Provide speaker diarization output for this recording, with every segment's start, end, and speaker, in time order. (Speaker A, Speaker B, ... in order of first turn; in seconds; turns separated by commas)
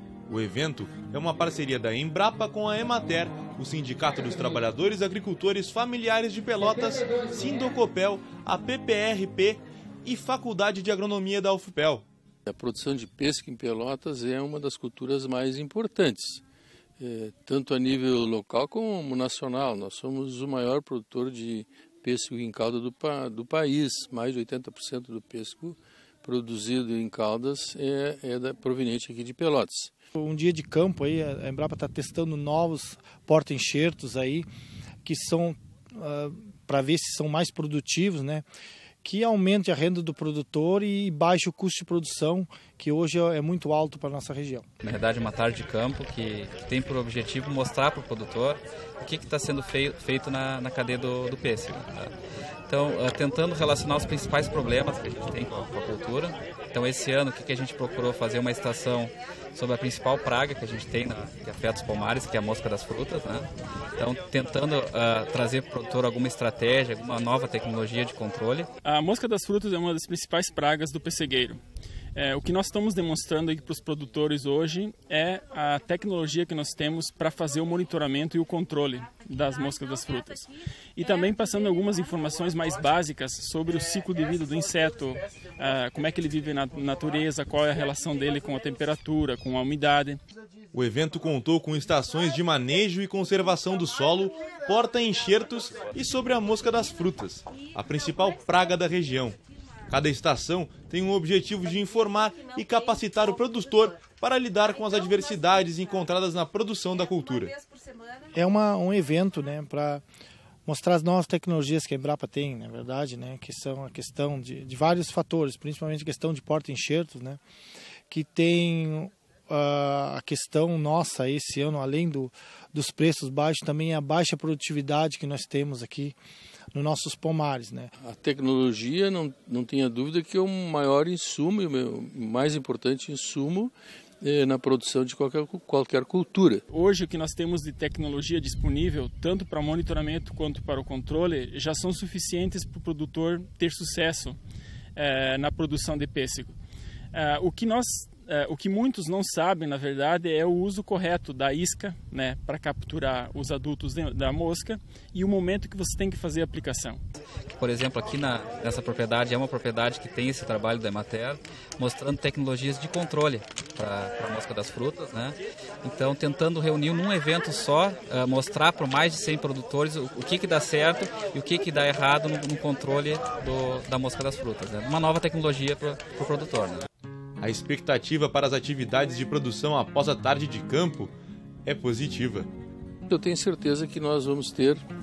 Speaker A: 0.3-12.0, Speaker B: 12.5-16.4, Speaker B: 17.0-29.9, Speaker C: 30.1-34.5, Speaker C: 35.0-38.4, Speaker C: 39.0-44.6, Speaker D: 44.8-52.1, Speaker D: 52.7-68.7, Speaker E: 68.8-71.6, Speaker E: 72.1-90.2, Speaker A: 90.7-99.3, Speaker A: 99.9-107.5, Speaker C: 108.3-110.0, Speaker C: 110.7-117.4, Speaker C: 118.1-126.2, Speaker C: 126.7-127.9, Speaker B: 128.0-136.6, Speaker E: 136.7-144.4, Speaker E: 144.9-146.5, Speaker E: 147.1-157.0, Speaker D: 157.4-176.8, Speaker A: 177.4-181.1, Speaker A: 181.7-182.5, Speaker B: 183.1-184.8